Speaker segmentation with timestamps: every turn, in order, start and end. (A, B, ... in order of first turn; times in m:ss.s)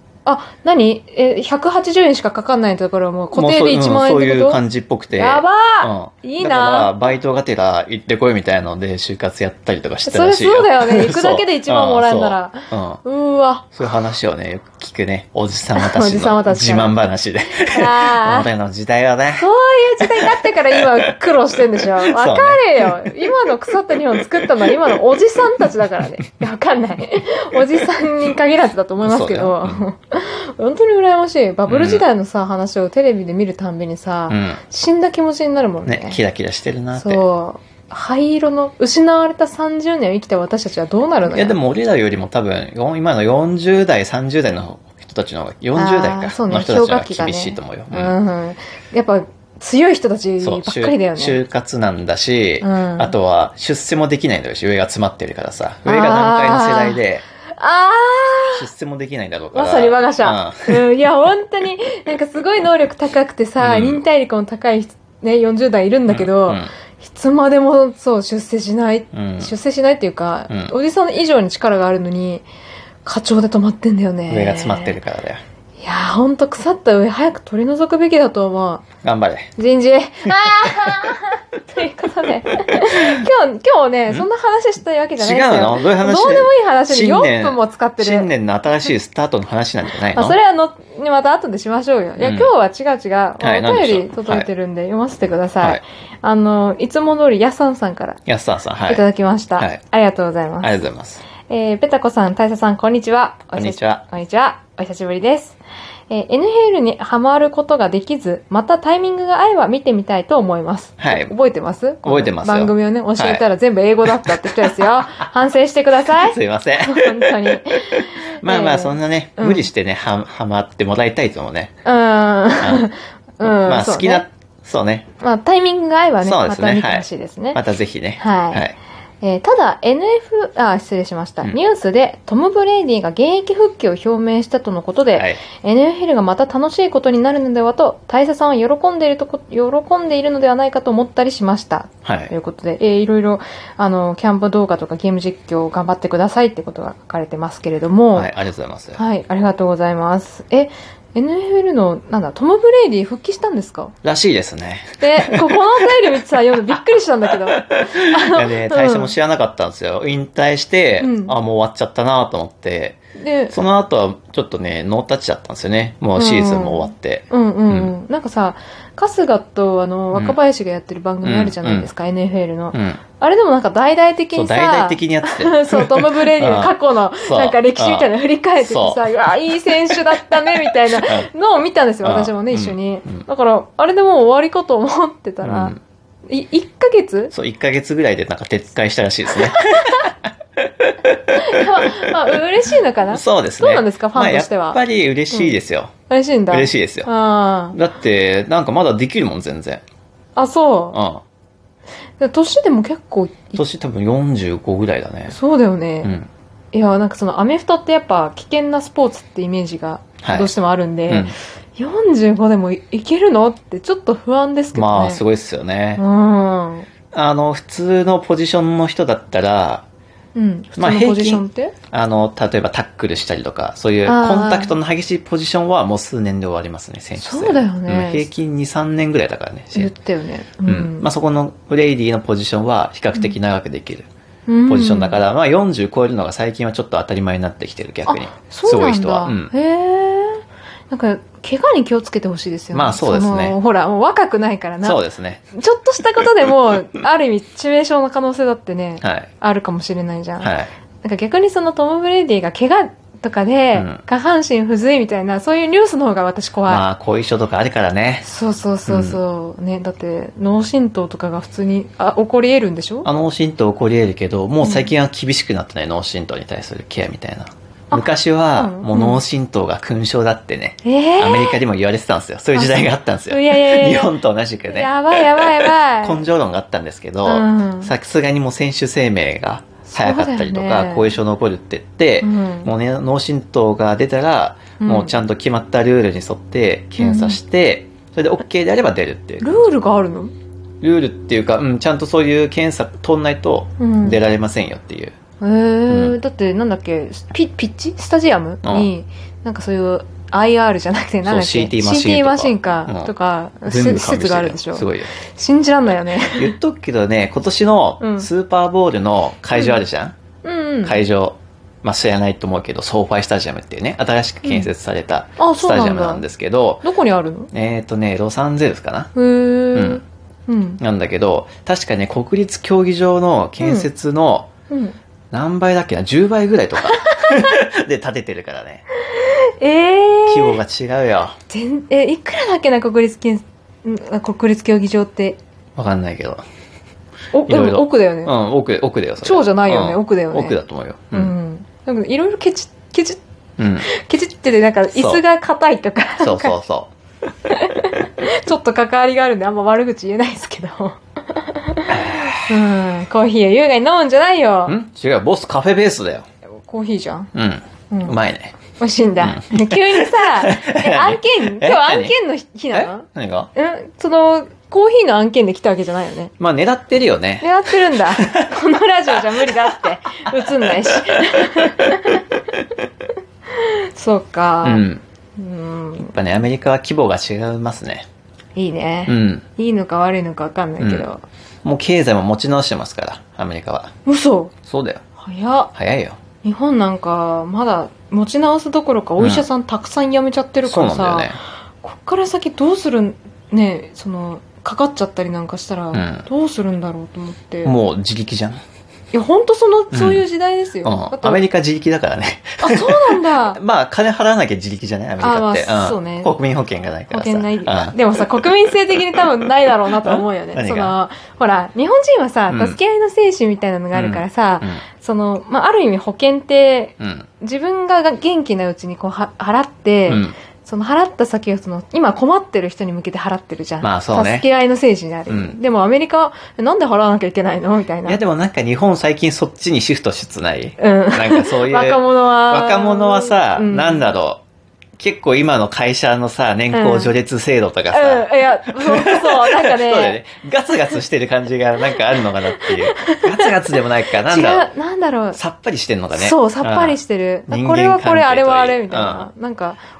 0:00.2-0:04.6 A
0:03.3-0:13.0 B
0:05.2-0:07.1 A
0:10.0-0:13.7 A
0:13.7-0:19.5 B
0:15.7-0:17.0 A
0:17.6-0:18.5 A
0:19.3-0:36.2 A
0:20.0-0:21.1 B
0:22.0-0:23.2 B
0:29.0-0:29.8 B
0:31.7-0:32.0 B
0:34.3-0:34.6 B
0:35.8-0:37.2 B
0:36.9-0:41.6 A
0:41.3-0:48.1 B
0:45.8-0:51.4 A
0:50.4-0:57.2 B
0:52.6-0:53.1 A
0:55.8-0:57.0 A
0:57.6-0:58.6 A
0:58.5-1:00.8 B
0:59.5-1:12.4 A
1:03.6-1:04.0 B
1:06.1-1:06.7 B
1:09.1-1:09.5 B
1:13.0-1:15.0 A
1:14.3-1:15.4 B
1:15.8-1:18.8 A
1:19.0-1:19.5 B
1:19.6-1:28.3 A
1:25.2-1:30.4 B
1:30.1-1:38.2 A
1:32.2-1:32.5 B
1:33.4-1:34.5 B
1:38.2-1:39.0 B
1:38.9-1:40.7 A
1:40.6-1:41.2 B
1:41.5-1:45.6 A
1:43.5-1:44.0 B
1:46.1-1:59.7 A
1:51.0-1:51.3 B
1:52.0-1:53.4 B
1:54.0-1:55.1 B
1:56.1-2:01.7 B
2:01.8-2:04.2 A
2:02.6-2:02.9 B
2:03.4-2:05.0 B
2:05.2-2:07.6 A
2:06.2-2:08.8 B
2:08.2-2:08.6 A
2:09.2-2:28.3 A
2:15.1-2:15.4 B
2:22.0-2:22.3 B
2:28.1-2:29.0 B
2:28.9-2:33.9 A
2:34.0-2:35.6 B
2:35.0-2:39.1 A
2:37.5-2:43.0 B
2:41.0-2:41.4 A
2:43.2-2:43.6 A
2:43.5-2:47.9 B
2:46.2-3:05.7 A
2:51.2-2:51.9 B
2:52.7-2:53.0 B
2:54.3-2:59.1 B
2:59.7-3:01.3 B
3:02.0-3:03.2 B
3:05.4-3:05.8 B
3:06.3-3:07.3 A
3:07.3-3:12.4 B
3:09.4-3:10.1 A
3:11.3-3:14.8 A
3:13.1-3:15.9 B
3:16.1-3:17.8 A
3:16.5-3:17.1 B
3:17.7-3:19.8 B
3:20.4-3:21.0 A
3:20.9-3:21.2 B
3:22.2-3:23.6 A
3:23.6-3:25.4 B
3:25.3-3:26.1 A
3:26.0-3:26.3 B
3:26.7-3:35.2 A
3:30.2-3:30.5 B
3:31.1-3:31.3 B
3:34.7-3:36.0 B
3:36.0-3:36.9 A
3:37.1-3:39.8 B
3:40.3-3:41.7 A
3:40.8-3:49.9 B
3:44.0-3:44.7 A
3:47.2-3:48.3 A
3:49.7-3:51.1 A
3:50.6-3:54.1 B
3:54.5-3:55.2 A
3:54.7-3:59.5 B
3:58.1-4:05.0 A
4:02.7-4:03.6 B
4:04.8-4:05.4 B
4:05.5-4:16.8 A
4:09.0-4:09.3 B
4:10.4-4:10.7 B
4:13.7-4:14.0 B
4:16.7-4:18.2 B
4:18.2-4:23.1 A
4:18.9-4:19.2 B
4:23.0-4:49.6 B
4:24.6-4:24.9 A
4:27.9-4:29.2 A
4:30.8-4:31.6 A
4:32.5-4:34.1 A
4:34.7-4:36.2 A
4:37.2-4:37.9 A
4:39.9-4:41.1 A
4:42.2-4:42.7 A
4:44.8-4:45.2 A
4:47.0-4:47.4 A
4:49.4-4:50.3 A
4:50.8-4:55.2 B
4:53.8-4:54.2 A
4:55.4-5:06.5 A
4:55.9-4:56.2 B
4:58.6-4:58.9 B
5:01.2-5:03.1 B
5:03.6-5:05.1 B
5:06.3-5:10.1 B
5:08.0-5:08.3 A
5:10.4-5:11.0 A
5:10.8-5:16.8 B
5:15.4-5:16.2 A
5:16.8-5:17.5 A
5:17.5-5:19.1 B
5:19.1-5:20.8 A
5:19.7-5:20.0 B
5:20.8-5:24.5 B
5:23.6-5:23.9 A
5:24.7-5:25.0 A
5:25.3-5:28.8 B
5:27.0-5:27.5 A
5:29.1-5:30.6 A
5:30.3-5:31.4 B
5:31.5-5:35.4 A
5:35.8-5:36.4 B
5:37.3-5:38.3 A
5:37.4-5:41.3 B
5:39.2-5:40.6 A
5:41.1-5:43.2 A
5:43.6-5:43.9 B
5:43.8-5:46.5 A
5:44.9-5:45.2 B
5:46.2-5:46.9 B
5:47.5-5:54.8 A
5:51.9-5:52.6 B
5:54.6-5:56.2 B
5:56.6-5:57.3 A
5:57.3-5:58.5 B
5:57.9-5:58.1 A
5:58.8-6:06.3 A
5:59.2-6:02.1 B
6:02.7-6:03.5 B
6:06.4-6:08.6 B
6:07.4-6:12.3 A
6:09.1-6:09.7 B
6:10.2-6:12.2 B
6:13.5-6:14.8 A
6:14.6-6:15.0 B
6:15.4-6:16.1 A
6:16.0-6:18.1 B
6:18.6-6:21.2 A
6:19.1-6:19.4 B
6:20.8-6:21.1 B
6:21.6-6:23.9 B
6:24.0-6:24.5 A
6:24.7-6:25.0 B
6:25.2-6:25.7 A
6:25.7-6:26.2 B
6:26.4-6:37.8 A
6:29.2-6:29.4 B
6:30.6-6:31.4 B
6:35.9-6:36.3 B
6:37.6-6:38.6 B
6:39.1-6:41.4 A
6:39.9-6:40.2 B
6:40.8-6:48.0 B
6:42.6-6:43.6 A
6:45.2-6:46.3 A
6:47.1-7:08.2 A
6:50.0-6:50.9 B
6:52.5-6:52.8 B
6:53.9-6:54.8 B
6:57.0-6:57.3 B
7:00.1-7:00.4 B
7:03.8-7:04.5 B
7:05.3-7:05.6 B
7:08.0-7:14.4 B
7:10.8-7:14.1 A
7:15.0-7:24.7 B
7:16.7-7:17.1 A
7:17.9-7:20.2 A
7:22.1-7:23.5 A
7:24.2-7:25.4 A
7:25.3-7:29.3 B
7:26.1-7:29.8 A